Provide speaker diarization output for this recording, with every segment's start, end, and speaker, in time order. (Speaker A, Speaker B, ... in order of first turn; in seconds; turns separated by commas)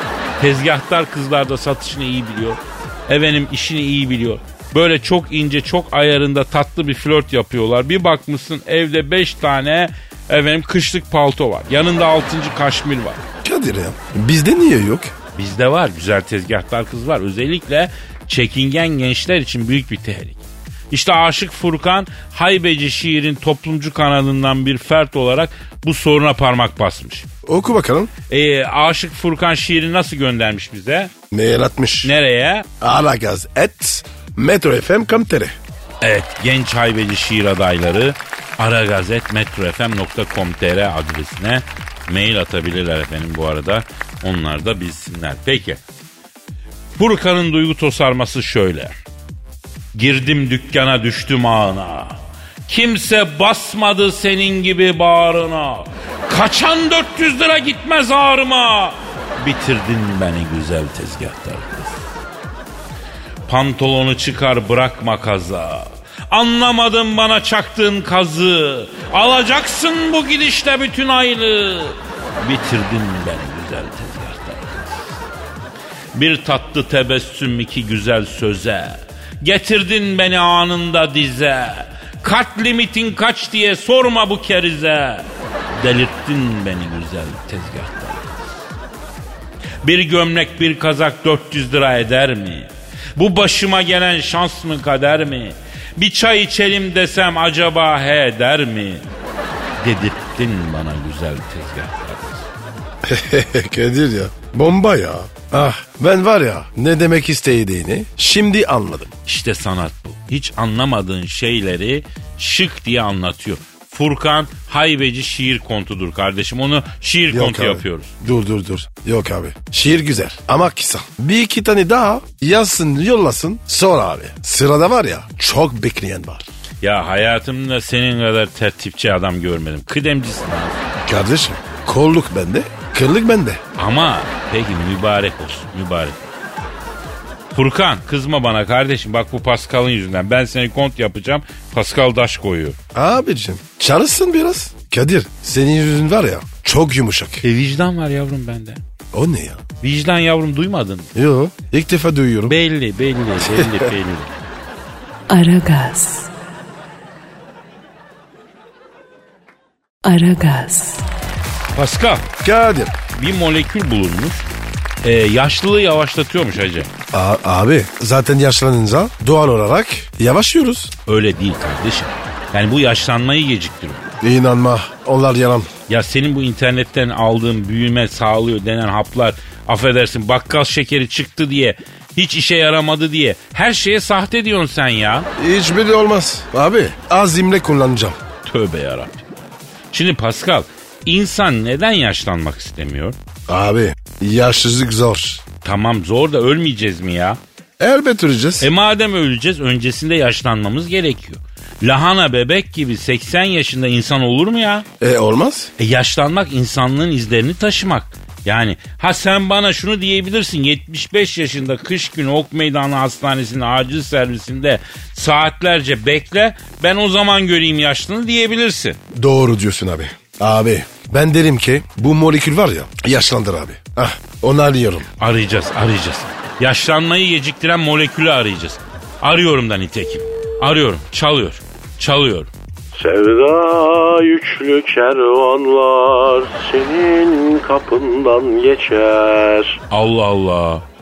Speaker A: 0.4-13.2, Speaker B: 13.4-15.1, Speaker A: 15.3-27.3, Speaker B: 27.4-28.1, Speaker A: 28.3-31.1, Speaker B: 31.3-32.1, Speaker A: 32.0-32.7, Speaker B: 32.8-35.6, Speaker A: 36.0-45.8, Speaker A: 47.0-48.9, Speaker A: 49.9-62.0, Speaker A: 63.5-75.2, Speaker A: 76.1-88.6, Speaker A: 89.8-99.1, Speaker A: 99.8-102.5, Speaker B: 103.0-109.1, Speaker A: 109.3-118.1, Speaker B: 117.3-126.5, Speaker A: 126.8-130.8, Speaker B: 131.1-133.6, Speaker A: 133.8-136.2, Speaker A: 137.5-142.8, Speaker B: 142.9-147.4, Speaker A: 147.4-148.8, Speaker B: 149.1-149.6, Speaker A: 149.8-151.1, Speaker B: 151.2-152.6, Speaker A: 152.5-154.3, Speaker C: 155.3-156.3, Speaker C: 160.0-161.1, Speaker A: 161.8-162.3, Speaker B: 162.4-162.9, Speaker A: 163.1-164.5, Speaker A: 165.0-166.9, Speaker B: 167.1-170.9, Speaker A: 171.1-174.1, Speaker B: 174.2-175.7, Speaker A: 175.9-185.3, Speaker B: 185.4-188.2, Speaker A: 188.4-189.2, Speaker A: 189.9-193.2, Speaker B: 193.5-195.4, Speaker A: 195.6-197.4, Speaker B: 197.8-198.7, Speaker A: 198.6-204.9, Speaker B: 205.0-205.7, Speaker A: 205.8-219.0, Speaker B: 219.1-225.1, Speaker A: 225.2-232.5, Speaker D: 232.9-239.8, Speaker A: 239.9-240.8